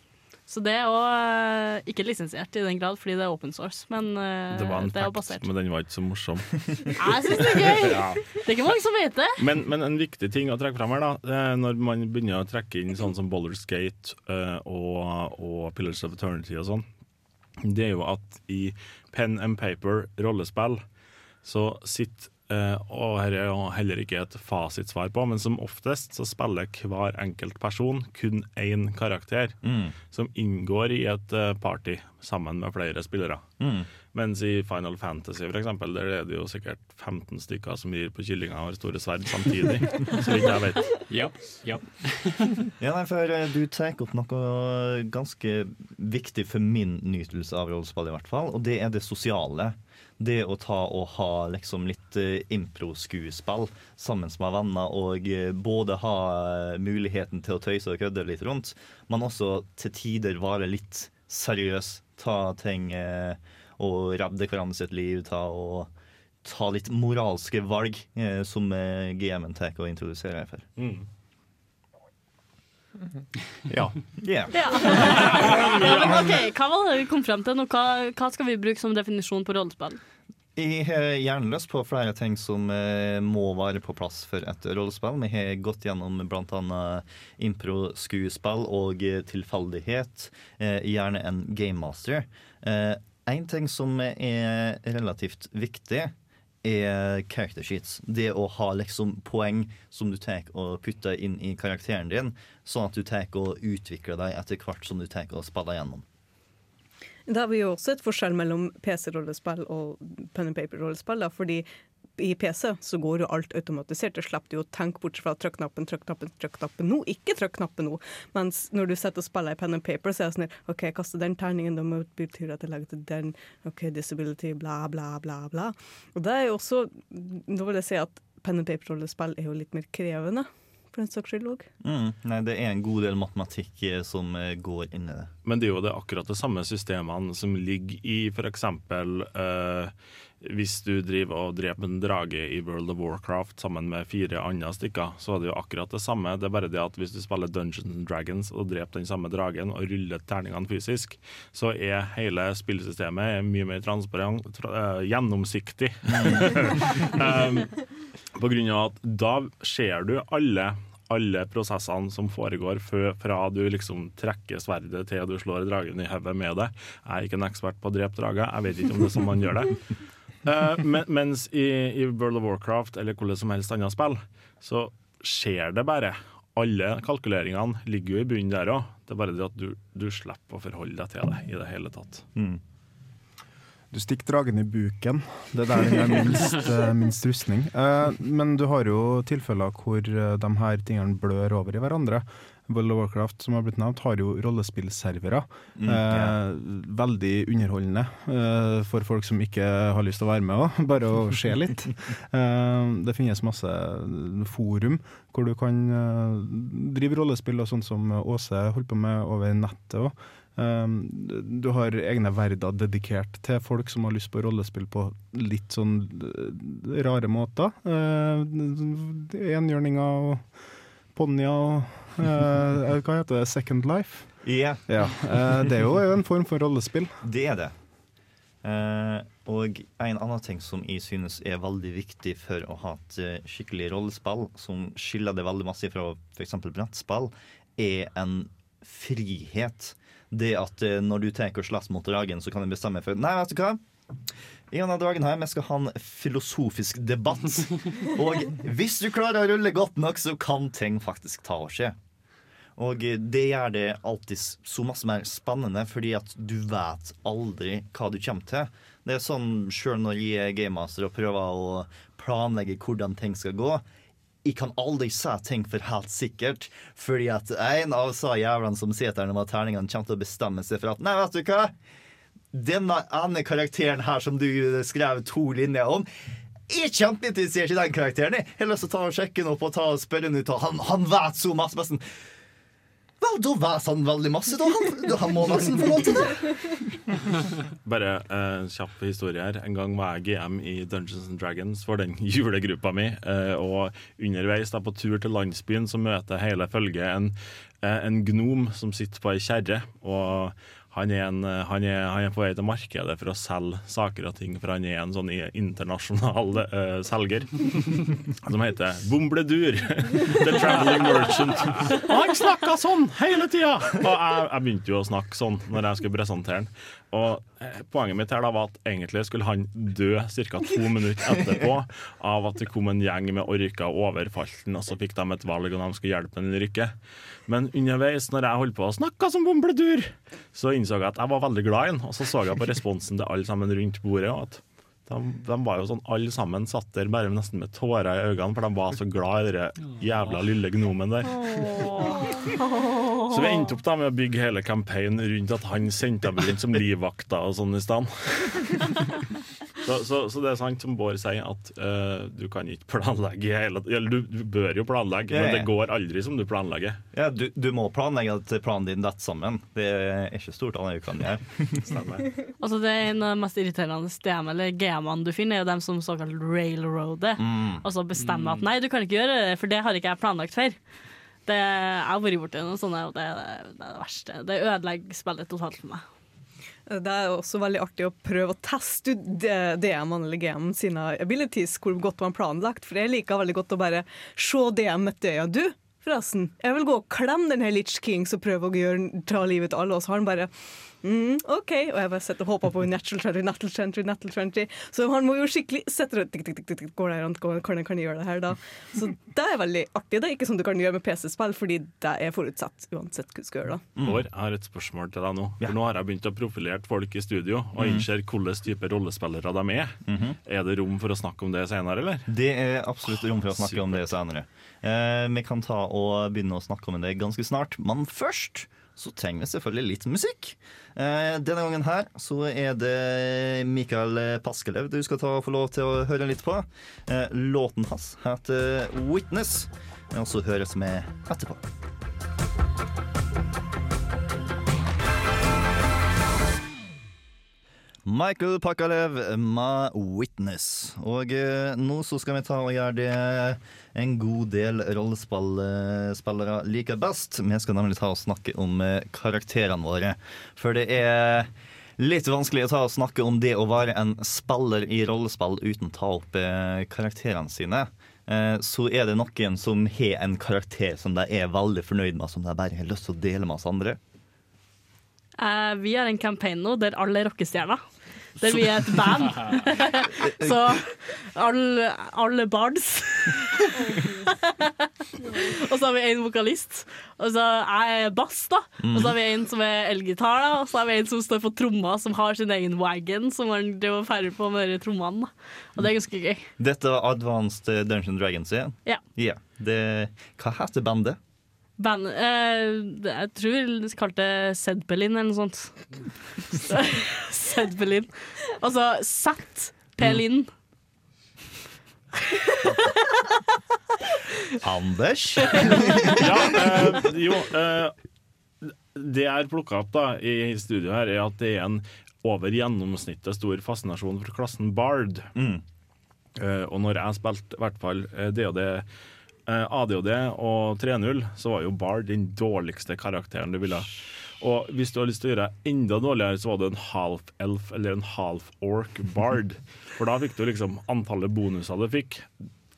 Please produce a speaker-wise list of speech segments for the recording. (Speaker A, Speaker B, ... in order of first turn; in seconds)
Speaker A: 0.5-5.4, 7.0-9.4, 74.5-80.0, 341.3-343.7, 362.6-370.8, 371.4-376.0, 465.4-467.8, 468.4-486.5, 491.8-500.5
Speaker B: 4.5-8.4, 9.4-16.8, 17.6-20.8, 21.4-29.6, 30.1-33.4, 34.1-41.0, 70.8-71.0, 75.3-75.7, 135.4-157.8, 158.3-169.8, 170.4-182.2, 287.8-326.9, 327.5-341.6, 343.3-349.0, 349.8-357.0, 361.8-362.2, 404.0-412.2, 413.4-414.1, 506.1-507.9, 508.6-515.3, 516.4-518.9, 519.5-532.3
Speaker C: 29.6-29.9, 33.6-33.9, 42.8-65.9, 66.4-70.7, 73.7-74.7, 75.8-76.1, 80.5-96.1, 96.6-106.0, 131.8-135.3, 156.2-156.4, 195.8-196.3, 224.4-224.8, 227.2-227.7, 228.6-243.8, 244.7-251.9, 252.8-263.8, 264.4-271.7, 272.5-276.1, 276.7-282.0, 283.2-286.6, 355.3-355.7, 357.1-361.9, 367.4-367.8, 404.0-404.2, 407.8-408.1, 410.1-410.4, 412.3-431.7, 438.1-464.0, 470.3-470.7, 478.8-479.1, 486.6-491.2, 504.6-506.6, 515.4-515.6
Speaker D: 41.1-42.7, 368.2-368.6
Speaker E: 107.3-111.7, 112.2-131.7, 376.9-390.5, 391.0-403.8
Speaker F: 183.9-220.5, 221.1-227.1